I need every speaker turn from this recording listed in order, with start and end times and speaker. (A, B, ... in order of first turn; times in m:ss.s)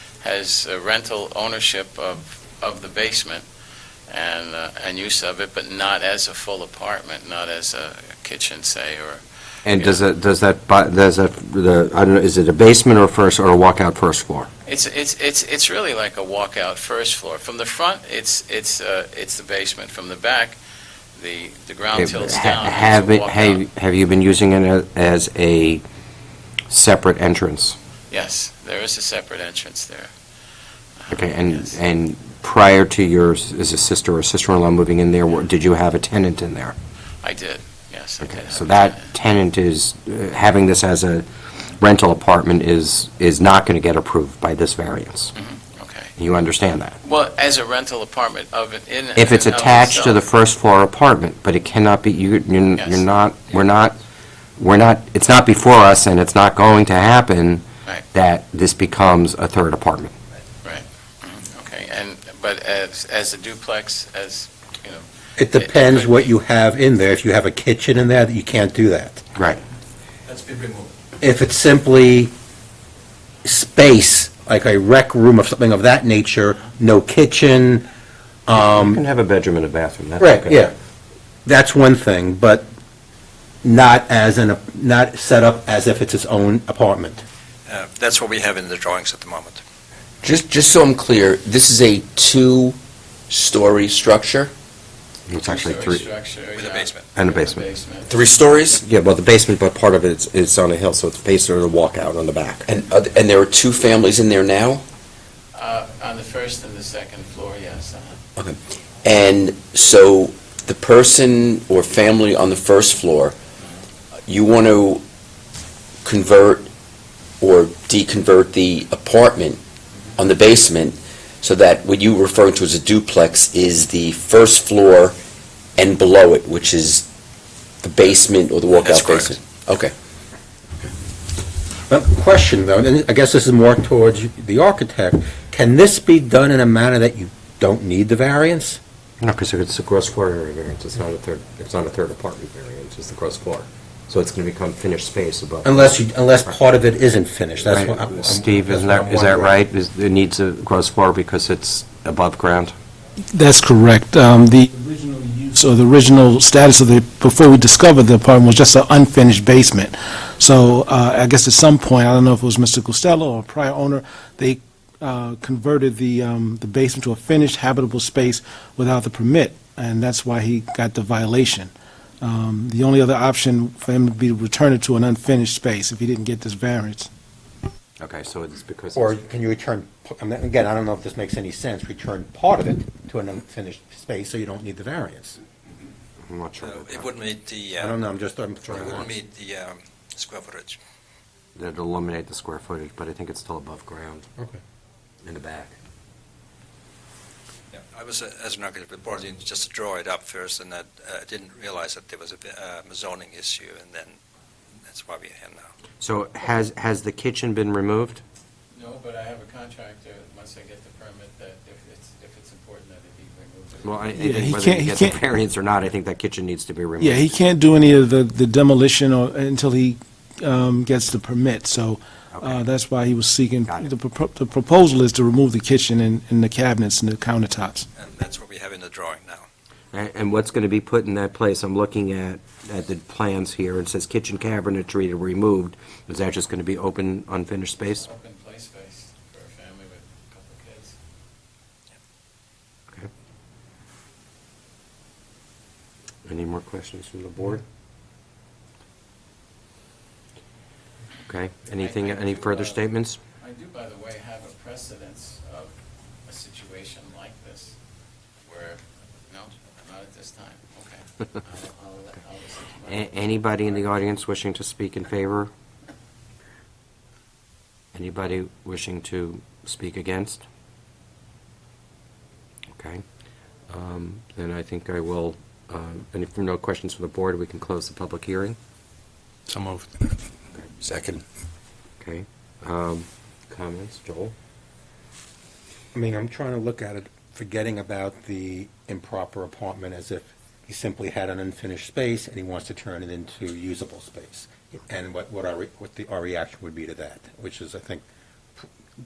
0:00.2-0:03.4 A
0:04.1-0:10.0 A
0:09.6-0:14.5 B
0:14.6-0:20.6 A
0:21.1-0:23.6 A
0:21.9-0:25.8 B
0:26.7-0:27.8 B
0:28.1-0:30.1 A
0:31.0-0:31.8 A
0:31.1-0:36.7 B
0:37.2-0:39.1 A
0:38.2-0:41.2 B
0:41.8-0:45.3 B
0:45.3-0:46.1 A
0:46.2-0:47.0 B
0:47.0-0:50.2 A
0:49.2-0:54.0 B
0:52.8-0:53.0 A
0:54.6-1:00.1 B
1:00.6-1:06.3 A
1:05.4-1:09.2 C
1:10.2-1:10.9 D
1:11.2-1:12.3 C
1:13.4-1:17.8 C
1:18.5-1:19.0 C
1:18.5-1:20.7 B
1:20.2-1:20.7 C
1:21.4-1:22.7 C
1:23.6-1:27.2 C
1:27.7-1:29.6 D
1:30.2-1:32.8 E
1:33.3-1:34.5 E
1:35.3-1:36.0 B
1:35.4-1:38.2 A
1:36.5-1:37.1 D
1:37.1-1:37.6 B
1:38.1-1:38.8 E
1:38.8-1:42.7 B
1:42.7-1:44.8 E
1:45.5-1:48.2 A
1:48.4-1:53.3 E
1:54.2-1:55.0 E
1:56.0-1:56.7 E
1:57.4-1:59.6 E
2:00.2-2:05.2 E
2:05.8-2:07.1 E
2:07.8-2:09.9 E
2:08.8-2:09.4 D
2:11.9-2:18.8 C
2:19.2-2:26.0 B
2:25.6-2:29.6 C
2:27.6-2:32.7 B
2:33.3-2:57.1 F
2:58.0-2:59.2 B
2:58.9-3:05.4 C
3:06.2-3:07.1 B
3:06.6-3:08.0 D
3:07.8-3:09.1 C
3:08.7-3:10.8 D
3:08.7-3:09.0 B
3:11.5-3:14.2 B
3:15.2-3:15.7 B
3:17.7-3:24.2 D
3:24.8-3:25.7 D
3:26.0-3:28.2 B
3:28.7-3:34.2 A
3:33.8-3:37.3 B
3:34.2-3:35.2 F
3:37.0-3:47.9 F
3:42.3-3:42.7 B
3:43.7-3:43.9 B
3:48.0-3:49.4 D
3:49.9-3:58.1 B
3:58.0-4:01.0 A
4:06.2-4:07.6 B
4:11.3-4:13.2 B
4:11.8-4:12.8 A
4:13.4-4:17.8 A
4:18.4-4:23.3 A
4:22.9-4:25.5 B
4:27.9-4:30.4 B
4:32.7-4:33.0 B
4:33.7-4:38.6 B
4:39.5-4:39.8 D
4:42.0-4:44.3 B
4:45.9-4:58.0 C